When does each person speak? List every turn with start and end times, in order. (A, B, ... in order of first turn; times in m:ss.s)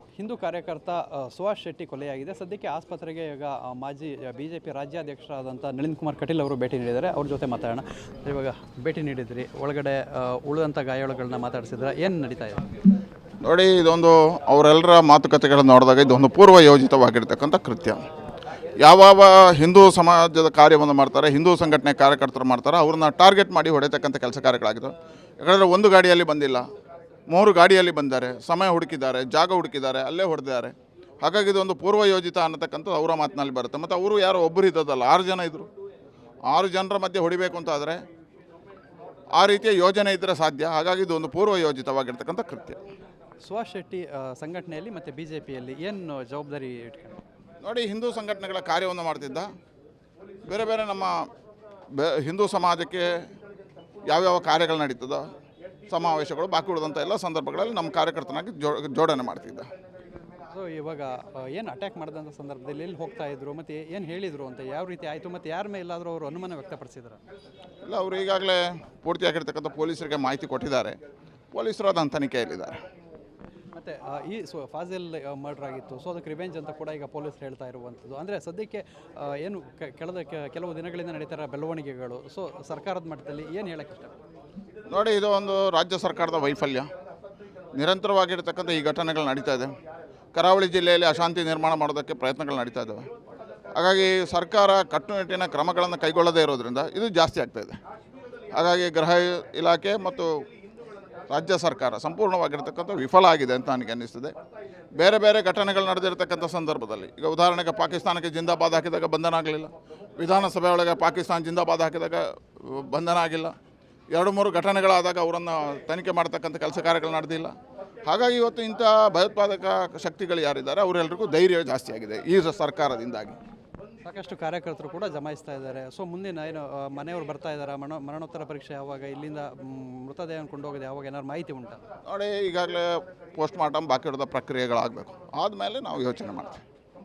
0:00.2-0:12.6 A
0:13.4-0:18.0 B
0:18.8-0:26.6 B
0:27.3-0:35.7 B
0:36.5-0:38.0 B
0:39.4-0:42.8 B
0:43.4-0:47.2 A
0:47.6-0:49.5 B
0:50.5-0:51.3 B
0:52.0-0:53.2 B
0:54.1-0:55.2 B
0:55.9-0:59.7 B
1:00.5-1:07.2 A
1:07.8-1:11.0 B
1:11.5-1:12.8 B
1:13.7-1:24.2 A
1:24.9-1:26.9 B
1:27.8-1:29.7 B
1:30.3-1:33.0 B
1:33.7-1:37.8 B
1:38.5-1:40.3 B
1:41.3-1:44.3 B
1:45.0-1:53.5 B
1:54.1-1:57.5 B
1:58.1-2:03.4 B
2:04.0-2:11.8 A
2:12.0-2:16.6 B